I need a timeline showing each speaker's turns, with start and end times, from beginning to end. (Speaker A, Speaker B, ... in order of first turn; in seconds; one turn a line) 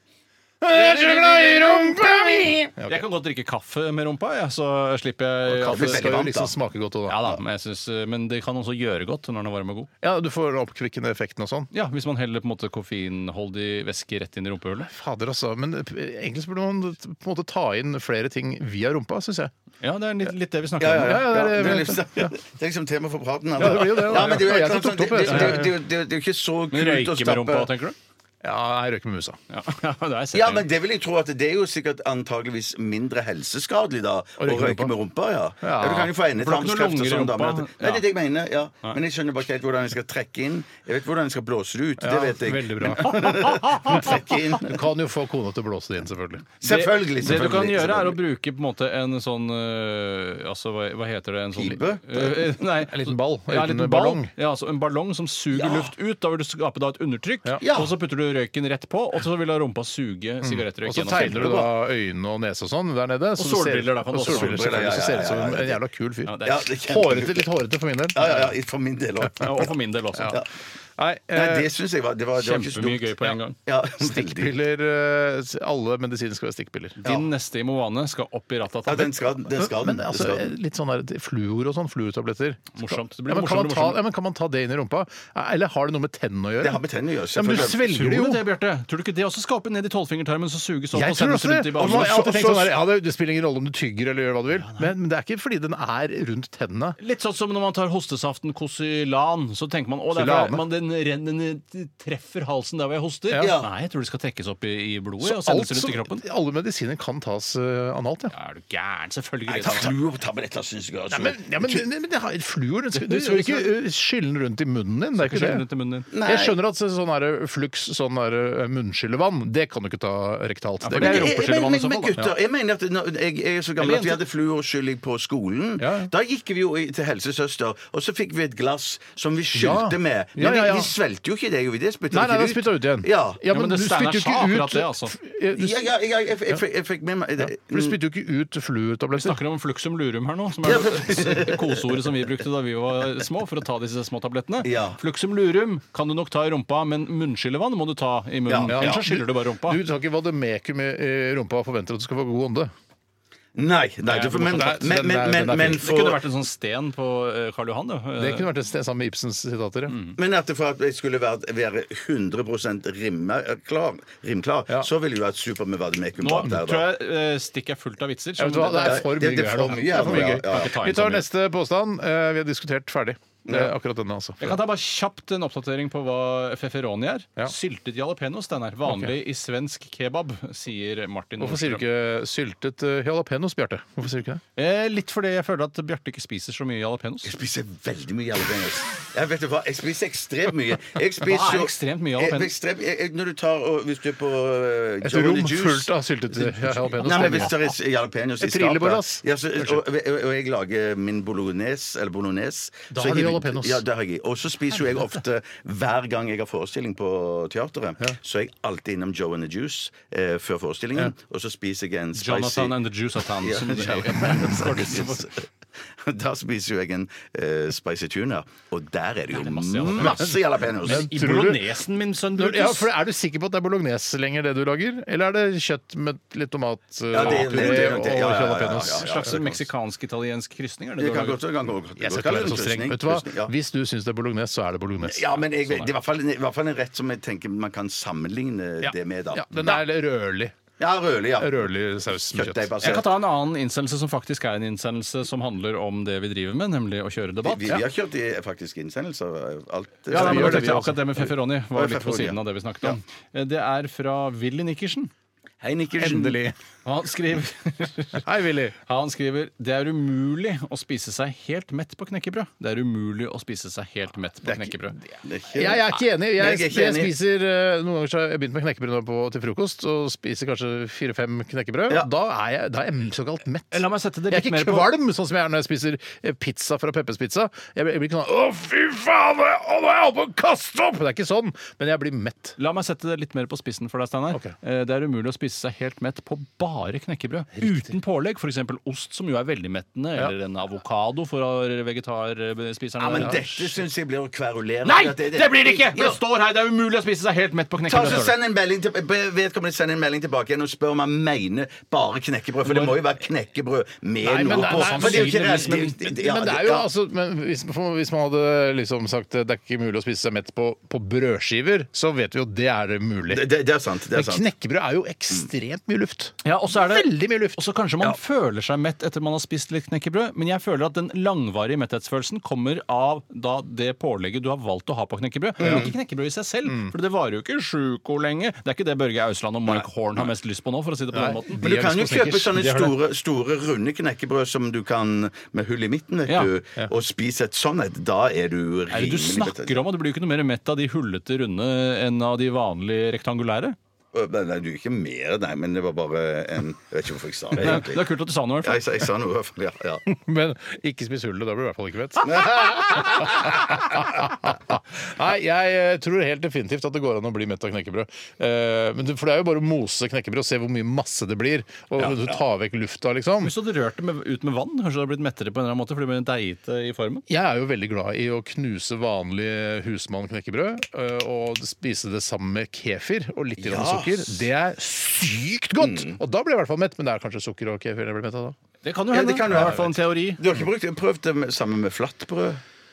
Speaker A: 0.6-3.0
Speaker B: 0.8-1.5
Speaker B: 2.8-6.0
Speaker A: 5.5-7.2
Speaker C: 5.7-6.5
Speaker B: 7.1-9.9
Speaker A: 10.0-11.7
Speaker B: 11.7-14.9
Speaker A: 14.9-19.5
Speaker B: 19.8-21.3
Speaker C: 20.8-27.7
Speaker A: 21.0-22.3
Speaker A: 23.6-25.7
Speaker B: 25.3-25.7
Speaker B: 26.7-27.9
Speaker A: 28.4-29.4
Speaker B: 29.5-30.7
Speaker C: 30.3-44.8
Speaker A: 34.4-34.9
Speaker A: 35.6-36.1
Speaker B: 36.4-38.1
Speaker A: 42.0-46.5
Speaker B: 43.5-44.2
Speaker C: 46.6-48.2
Speaker B: 46.6-61.6
Speaker C: 51.6-52.5
Speaker A: 52.9-54.3
Speaker C: 55.5-55.9
Speaker C: 57.6-57.9
Speaker A: 60.4-68.5
Speaker C: 61.2-61.7
Speaker B: 63.4-65.1
Speaker C: 64.2-65.8
Speaker B: 66.3-66.6
Speaker C: 66.5-67.5
Speaker C: 68.1-69.7
Speaker B: 69.4-70.4
Speaker A: 71.0-71.7
Speaker C: 71.3-73.1
Speaker B: 72.4-73.6
Speaker C: 73.6-74.6
Speaker A: 74.0-77.1
Speaker B: 77.0-79.3
Speaker C: 78.9-80.5
Speaker A: 79.6-86.8
Speaker B: 82.8-84.0
Speaker C: 86.6-87.8
Speaker A: 87.3-88.4
Speaker B: 87.5-92.4
Speaker A: 90.9-97.0
Speaker C: 91.8-92.7
Speaker B: 94.6-94.9
Speaker B: 97.0-106.2
Speaker A: 100.1-100.6
Speaker C: 103.4-103.7
Speaker A: 105.2-108.3
Speaker B: 108.3-110.0
Speaker C: 109.5-111.8
Speaker A: 111.1-115.6
Speaker B: 112.9-113.7
Speaker B: 115.2-116.1
Speaker C: 116.1-116.6
Speaker A: 116.2-121.4
Speaker B: 120.8-122.2
Speaker C: 121.0-133.4
Speaker B: 123.8-124.2
Speaker A: 125.8-126.1
Speaker A: 129.5-130.9
Speaker A: 132.1-135.9
Speaker B: 133.5-135.2
Speaker C: 135.6-138.0
Speaker A: 137.4-139.4
Speaker B: 139.2-149.8
Speaker C: 140.6-141.8
Speaker C: 144.6-145.0
Speaker C: 148.5-149.0
Speaker A: 148.7-152.7
Speaker C: 153.6-156.2
Speaker B: 154.1-154.8
Speaker A: 154.3-155.8
Speaker B: 155.8-158.5
Speaker A: 158.2-160.0
Speaker B: 159.9-160.2
Speaker C: 160.2-166.9
Speaker B: 166.2-169.1
Speaker A: 168.4-174.6
Speaker C: 168.8-170.8
Speaker B: 169.8-171.3
Speaker C: 173.4-173.7
Speaker B: 174.4-181.8
Speaker A: 178.9-179.1
Speaker A: 181.4-184.4
Speaker B: 184.6-187.3
Speaker C: 187.2-212.8
Speaker B: 191.2-192.5
Speaker A: 195.0-197.6
Speaker B: 196.7-197.5
Speaker A: 198.4-199.8
Speaker A: 202.9-203.8
Speaker B: 212.2-215.3
Speaker C: 213.4-215.4
Speaker C: 215.9-221.1
Speaker B: 219.3-222.9
Speaker A: 220.1-221.7
Speaker A: 222.4-229.5
Speaker C: 227.1-229.5
Speaker B: 227.3-227.7
Speaker B: 228.8-231.4
Speaker C: 231.0-233.5
Speaker A: 232.0-235.9
Speaker C: 235.0-239.8
Speaker A: 238.8-240.6
Speaker C: 240.8-243.1
Speaker A: 241.4-243.0
Speaker B: 242.8-247.8
Speaker C: 247.4-253.0
Speaker B: 250.1-255.1
Speaker A: 250.1-250.9
Speaker C: 255.6-256.4
Speaker A: 256.0-256.6
Speaker B: 256.8-258.3
Speaker A: 258.2-258.8
Speaker B: 258.9-265.0
Speaker A: 264.4-282.6
Speaker C: 265.2-267.1
Speaker B: 273.7-274.9
Speaker B: 282.6-293.8
Speaker A: 287.6-287.9
Speaker C: 293.0-296.2
Speaker B: 294.8-298.4
Speaker C: 297.9-306.9
Speaker B: 302.6-303.0
Speaker A: 304.2-313.5
Speaker B: 304.5-306.0
Speaker C: 313.3-314.5
Speaker A: 314.1-317.6
Speaker B: 316.4-331.6
Speaker C: 325.6-325.9
Speaker A: 325.6-325.9
Speaker A: 326.7-326.9
Speaker A: 331.1-333.0
Speaker C: 331.6-339.8
Speaker B: 338.9-343.8
Speaker C: 344.1-348.1
Speaker B: 347.6-348.9
Speaker C: 348.6-350.1
Speaker A: 350.1-363.5
Speaker C: 352.2-353.7
Speaker B: 363.4-367.2
Speaker A: 367.3-378.6
Speaker C: 373.6-374.4
Speaker C: 375.8-376.2
Speaker B: 378.8-380.4
Speaker C: 379.1-382.6